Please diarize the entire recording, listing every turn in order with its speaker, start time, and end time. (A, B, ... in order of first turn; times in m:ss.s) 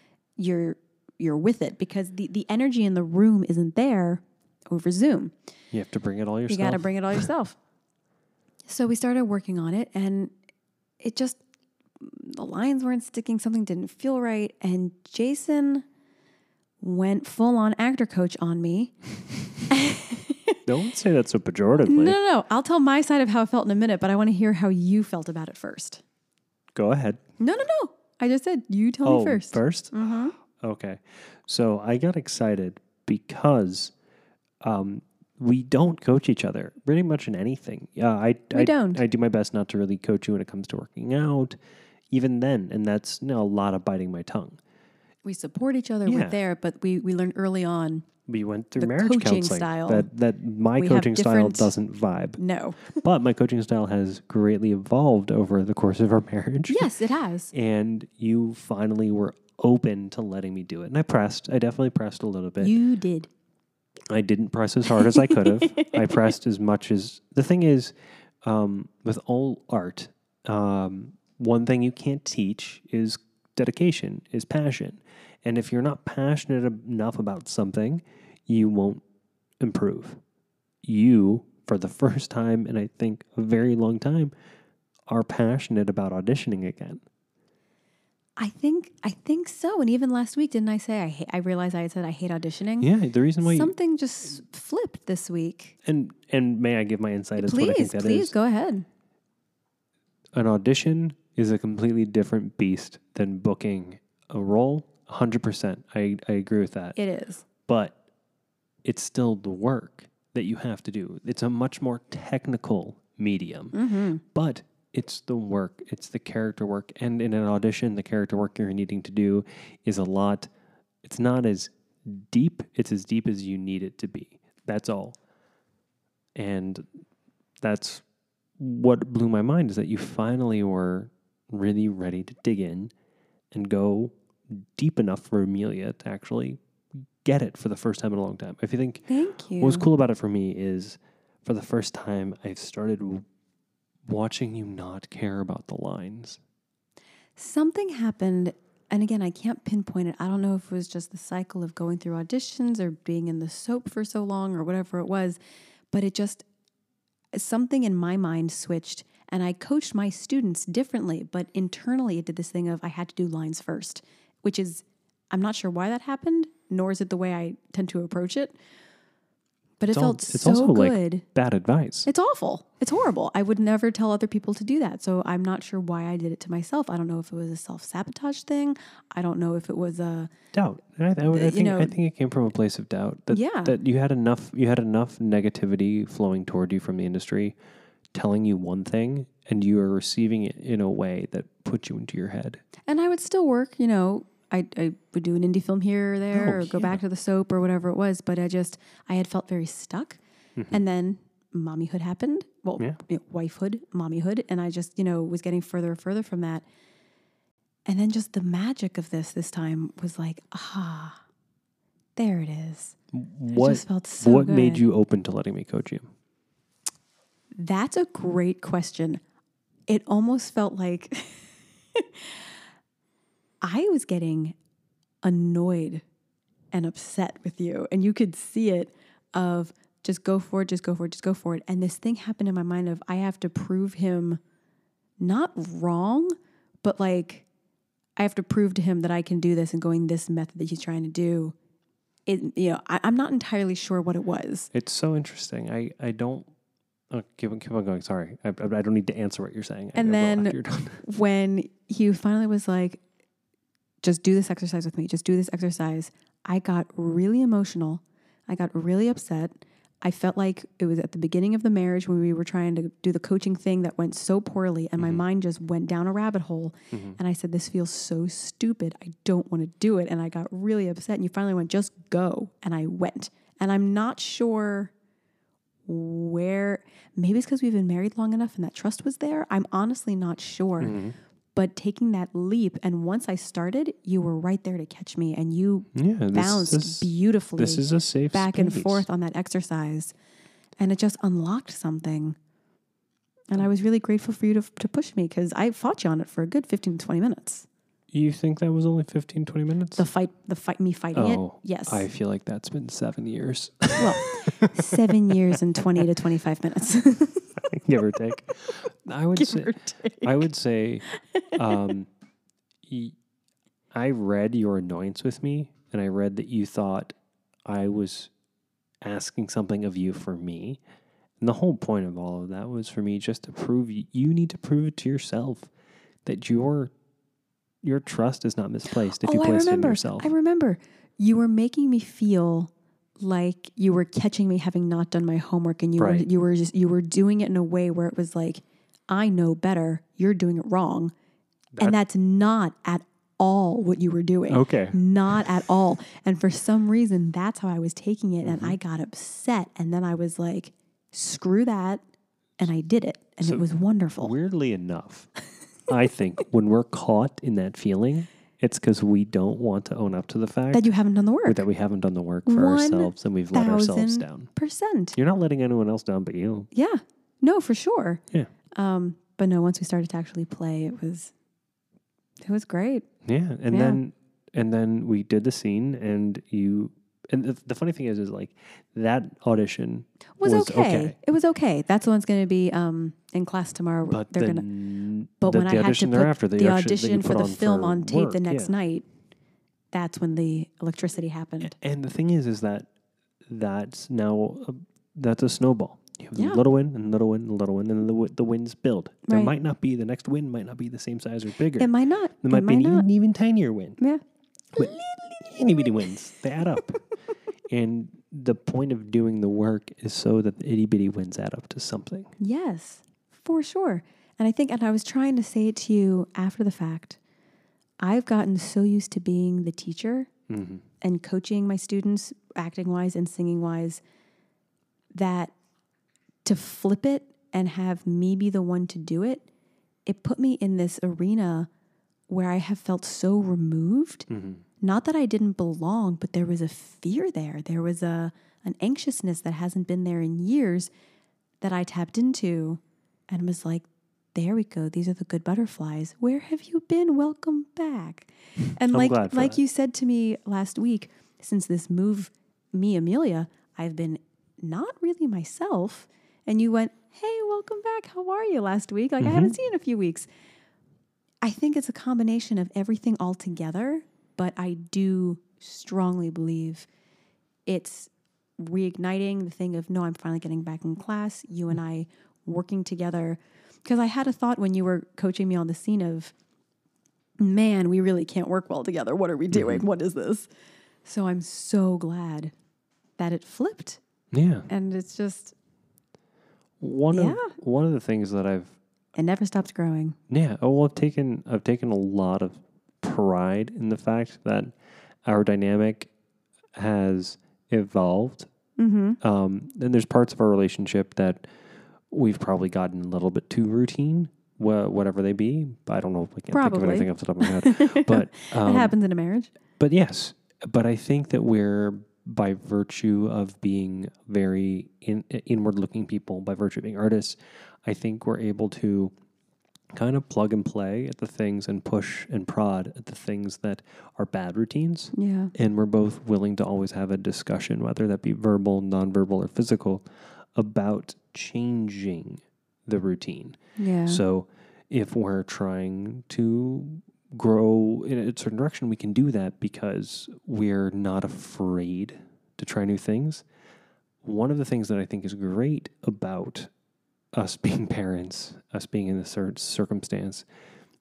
0:00.4-0:05.3 A
0:05.7-0:07.3 B
0:06.5-0:07.6 A
0:08.7-0:10.3 A
0:11.0-0:11.4 A
0:12.0-0:15.8 A
0:16.8-0:19.0 A
0:19.7-0:20.6 A
0:20.7-0:22.2 B
0:21.8-0:26.0 A
0:26.8-0:27.2 B
0:27.4-0:30.4 A
0:29.0-0:33.9 B
0:34.6-0:41.6 B
0:38.5-0:39.0 A
0:42.1-0:44.6 B
0:45.2-0:48.1 A
0:46.1-0:46.4 B
0:48.3-0:52.4 B
0:48.8-0:50.1 A
0:50.8-0:51.7 A
0:52.4-0:53.0 A
0:52.9-0:56.9 B
0:56.7-0:57.5 A
0:57.5-1:02.8 B
1:02.6-1:03.3 A
1:04.1-1:19.0 B
1:05.0-1:06.1 A
1:19.6-1:20.2 B
1:20.8-1:24.3 B
1:25.1-1:27.0 B
1:28.4-1:32.9 A
1:32.8-1:33.7 B
1:33.4-1:35.8 A
1:35.8-1:38.3 B
1:37.4-1:38.9 A
1:40.3-1:47.0 B
1:47.0-1:47.4 A
1:47.7-1:48.0 B
1:48.8-1:53.8 B
1:53.7-1:54.2 A
1:54.3-2:00.5 B
2:01.0-2:05.2 B
2:06.4-2:06.8 B
2:07.6-2:08.0 B
2:08.6-2:12.9 B
2:13.5-2:16.6 B
2:17.2-2:23.2 B
2:19.1-2:19.9 A
2:24.1-2:26.4 B
2:27.4-2:35.4 A
2:35.9-2:36.5 A
2:37.3-2:48.6 A
2:49.8-2:51.2 A
2:49.9-2:52.1 B
2:52.1-3:00.3 A
3:00.5-3:07.6 B
3:01.3-3:02.0 A
3:03.3-3:03.8 A
3:08.1-3:12.6 B
3:12.9-3:20.2 A
3:16.3-3:17.0 B
3:20.7-3:26.6 A
3:27.9-3:31.2 A
3:32.2-3:33.0 A
3:33.1-3:36.0 B
3:33.5-3:34.8 A
3:37.6-3:39.2 A
3:39.9-3:42.4 A
3:43.6-3:44.6 A
3:45.2-3:46.0 A
3:46.7-3:54.4 A
3:55.2-3:57.4 A
3:58.2-4:01.6 A
4:02.3-4:04.7 A
4:04.7-4:06.5 B
4:07.1-4:11.0 B
4:10.0-4:13.0 A
4:14.0-4:34.9 A
4:26.9-4:27.2 B
4:35.9-4:41.0 A
4:40.8-4:41.2 B
4:41.6-4:50.1 A
4:45.9-4:49.1 B
4:50.8-4:52.4 A
4:53.5-4:57.7 A
4:58.1-5:00.0 B
5:00.0-5:02.0 A
5:01.2-5:06.0 B
5:04.0-5:07.6 A
5:07.6-5:12.1 B
5:09.4-5:10.5 A
5:11.1-5:11.9 A
5:12.9-5:13.2 B
5:13.9-5:17.2 B
5:17.7-5:18.3 B
5:19.0-5:20.8 B
5:21.4-5:25.7 B
5:26.2-5:26.9 B
5:27.8-5:30.3 B
5:29.2-5:41.1 A
5:36.0-5:36.2 B
5:41.8-5:52.0 A
5:44.5-5:45.6 B
5:48.4-5:48.8 B
5:52.6-5:54.3 A
5:54.2-5:55.3 B
5:55.9-6:00.9 B
6:00.7-6:01.6 A
6:01.4-6:04.5 B
6:02.5-6:05.2 A
6:05.2-6:06.7 B
6:06.7-6:08.2 A
6:08.8-6:11.3 A
6:12.4-6:13.0 A
6:13.2-6:21.2 B
6:13.7-6:14.0 A
6:20.4-6:24.7 A
6:24.1-6:28.7 B
6:25.4-6:29.1 A
6:29.9-6:31.8 A
6:31.6-6:32.9 B
6:33.5-6:41.9 B
6:36.4-6:36.6 A
6:39.3-6:39.5 A
6:41.8-6:43.1 A
6:42.4-6:44.0 B
6:44.7-6:47.0 B
6:47.7-6:52.3 B
6:52.4-6:57.2 A
6:58.0-7:00.3 A
7:00.5-7:00.8 B
7:01.0-7:04.0 A
7:05.1-7:05.5 A
7:06.4-7:09.4 A
7:10.1-7:11.7 A
7:12.3-7:14.3 A
7:14.3-7:14.6 B
7:14.8-7:20.9 A
7:21.6-7:40.3 A
7:28.9-7:29.6 B
7:39.2-7:39.6 B
7:41.4-7:46.9 A
7:47.7-7:56.3 A
7:57.4-8:00.5 A
7:59.5-7:59.8 B
8:01.0-8:02.5 A
8:03.2-8:04.0 A
8:04.3-8:04.7 B
8:04.7-8:05.6 A
8:06.8-8:08.8 B
8:07.1-8:07.5 A
8:09.2-8:10.2 A
8:10.3-8:16.1 B
8:16.8-8:18.5 B
8:18.8-8:19.2 A
8:19.2-8:21.4 B
8:22.1-8:28.9 B
8:26.5-8:29.5 A
8:29.8-8:39.1 B
8:39.9-9:03.4 B
8:45.1-8:45.5 A
8:53.8-8:54.2 A
9:04.2-9:06.7 B
9:07.3-9:10.4 B